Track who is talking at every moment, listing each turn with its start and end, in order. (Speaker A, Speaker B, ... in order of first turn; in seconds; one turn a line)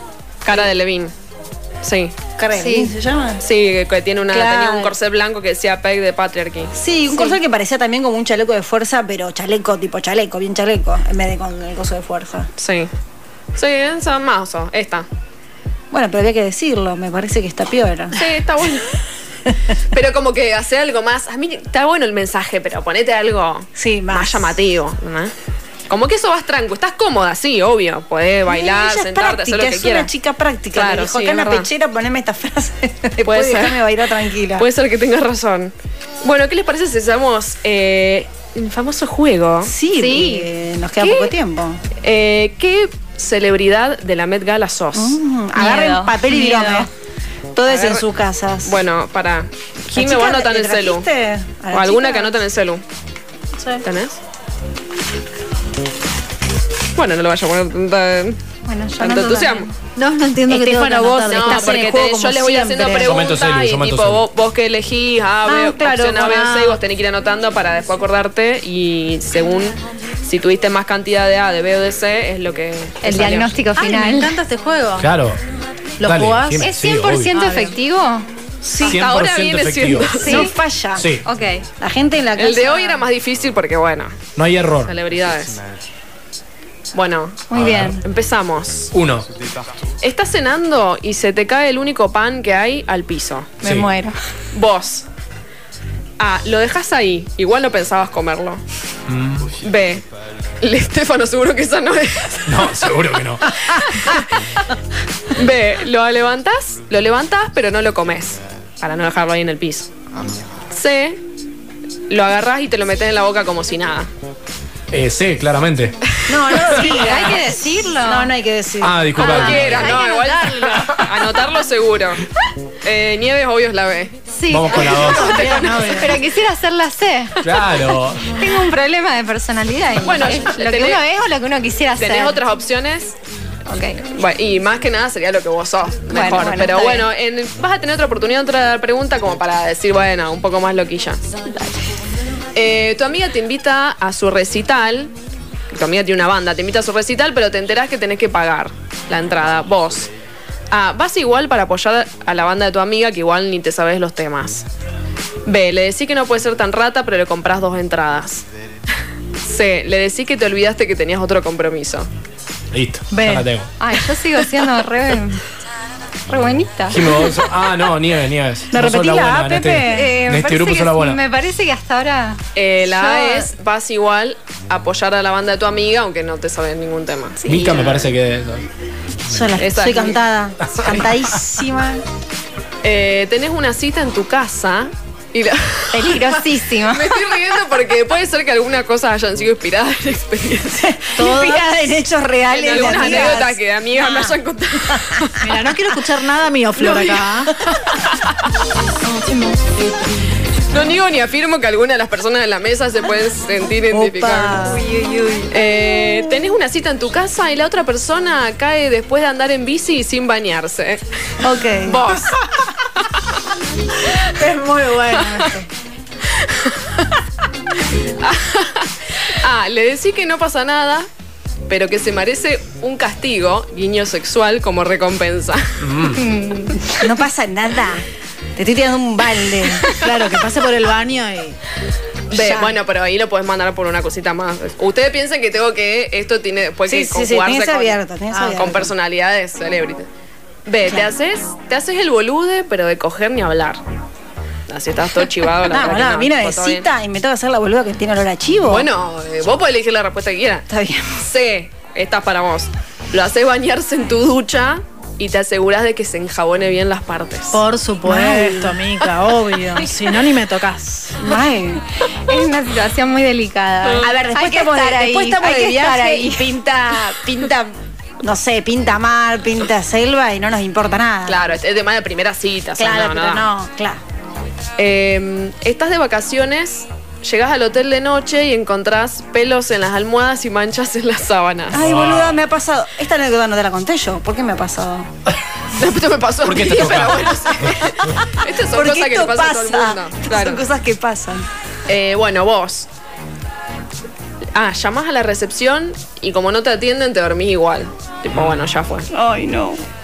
Speaker A: 0.4-1.1
Speaker A: 1.8-2.1
Speaker B: 2.4-3.4
Speaker C: 2.5-2.9
Speaker A: 3.4-6.7
Speaker B: 4.3-4.9
Speaker B: 6.7-12.5
Speaker C: 7.1-7.4
Speaker A: 12.6-12.9
Speaker A: 13.5-15.1
Speaker B: 15.9-18.2
Speaker A: 18.1-19.0
Speaker A: 19.9-25.3
Speaker B: 23.7-24.6
Speaker A: 25.9-30.1
Speaker B: 28.5-34.7
Speaker A: 30.7-31.7
Speaker A: 33.2-33.9
Speaker A: 34.6-39.7
Speaker B: 39.6-41.8
Speaker C: 39.9-40.5
Speaker A: 41.0-41.4
Speaker A: 42.0-45.2
Speaker B: 44.9-46.9
Speaker C: 45.5-46.9
Speaker B: 47.5-48.7
Speaker A: 47.6-48.1
Speaker A: 48.6-51.1
Speaker B: 49.9-52.4
Speaker A: 51.7-52.8
Speaker D: 53.6-53.9
Speaker A: 53.8-54.2
Speaker A: 56.9-58.4
Speaker C: 58.6-59.7
Speaker A: 59.0-59.7
Speaker D: 60.0-61.9
Speaker B: 60.5-63.2
Speaker A: 61.3-73.6
Speaker E: 63.0-64.2
Speaker B: 65.5-66.7
Speaker C: 73.0-74.3
Speaker D: 73.8-75.1
Speaker E: 75.0-75.4
Speaker D: 76.0-76.7
Speaker E: 76.0-77.4
Speaker C: 76.6-78.2
Speaker D: 77.3-77.8
Speaker E: 78.7-80.2
Speaker A: 78.8-80.5
Speaker C: 80.1-80.6
Speaker B: 80.2-81.1
Speaker E: 81.0-81.3
Speaker C: 81.2-81.7
Speaker B: 81.8-82.9
Speaker A: 82.4-84.2
Speaker E: 84.4-84.9
Speaker A: 84.8-85.6
Speaker A: 86.9-88.9
Speaker C: 87.5-88.0
Speaker E: 87.5-88.0
Speaker E: 88.9-89.3
Speaker A: 90.0-93.6
Speaker E: 93.6-93.9
Speaker C: 93.6-94.2
Speaker A: 94.5-95.1
Speaker A: 96.2-98.6
Speaker E: 99.1-99.5
Speaker A: 99.6-100.1
Speaker A: 100.6-102.9
Speaker E: 102.5-103.7
Speaker A: 103.6-104.6
Speaker A: 105.3-109.9
Speaker A: 110.7-111.2
Speaker A: 112.1-114.1
Speaker E: 114.9-116.0
Speaker B: 116.2-119.1
Speaker A: 116.3-116.6
Speaker C: 116.7-118.3
Speaker E: 118.8-121.3
Speaker C: 119.2-120.9
Speaker A: 119.2-122.2
Speaker A: 122.8-124.2
Speaker C: 124.3-127.4
Speaker E: 124.5-125.4
Speaker D: 124.7-126.2
Speaker A: 124.8-125.8
Speaker E: 127.4-128.4
Speaker A: 127.4-127.7
Speaker C: 128.2-132.4
Speaker A: 130.0-131.0
Speaker A: 132.0-133.2
Speaker C: 133.7-134.0
Speaker A: 134.1-141.2
Speaker C: 136.1-137.1
Speaker C: 141.4-141.8
Speaker A: 142.5-145.1
Speaker A: 145.7-150.1
Speaker A: 150.7-154.7
Speaker A: 155.4-158.4
Speaker A: 159.4-162.1
Speaker E: 162.7-163.7
Speaker D: 163.1-163.5
Speaker C: 163.8-165.4
Speaker C: 166.3-167.5
Speaker E: 166.9-171.2
Speaker B: 168.7-170.2
Speaker C: 169.9-173.5
Speaker A: 172.6-178.1
Speaker C: 177.4-177.9
Speaker E: 177.4-178.7
Speaker B: 179.3-182.0
Speaker A: 179.6-180.2
Speaker E: 180.6-181.3
Speaker A: 182.8-191.0
Speaker C: 185.9-187.2
Speaker B: 190.7-194.3
Speaker D: 191.2-191.7
Speaker A: 192.5-195.5
Speaker D: 192.7-193.1
Speaker B: 194.9-195.2
Speaker D: 195.4-197.6
Speaker A: 196.8-198.5
Speaker A: 200.7-204.6
Speaker B: 203.9-205.2
Speaker C: 204.6-205.5
Speaker A: 205.5-213.3
Speaker B: 211.4-212.3
Speaker A: 214.1-214.4
Speaker D: 214.2-215.7
Speaker A: 215.1-215.6
Speaker A: 216.2-217.0
Speaker A: 217.9-221.1
Speaker A: 221.7-226.0
Speaker E: 225.8-226.3
Speaker C: 226.2-227.1
Speaker B: 226.9-228.0
Speaker B: 228.6-230.0
Speaker D: 229.9-231.6
Speaker A: 232.3-240.1
Speaker B: 232.3-232.7
Speaker B: 236.9-238.9
Speaker D: 238.3-238.7
Speaker A: 240.7-243.8
Speaker A: 244.7-246.9
Speaker B: 245.6-248.9
Speaker A: 248.6-257.6
Speaker B: 250.7-251.2
Speaker D: 257.5-261.3
Speaker B: 258.0-259.0
Speaker B: 261.2-261.8
Speaker C: 262.1-266.5
Speaker A: 263.8-264.1
Speaker B: 264.0-271.5
Speaker A: 271.2-273.5
Speaker B: 272.8-274.0
Speaker A: 274.8-281.8
Speaker B: 281.7-285.1
Speaker E: 281.7-282.4
Speaker A: 285.7-290.6
Speaker E: 286.4-287.8
Speaker B: 288.4-291.4
Speaker A: 291.9-292.9
Speaker A: 294.4-299.1
Speaker E: 298.3-298.7
Speaker B: 299.1-299.8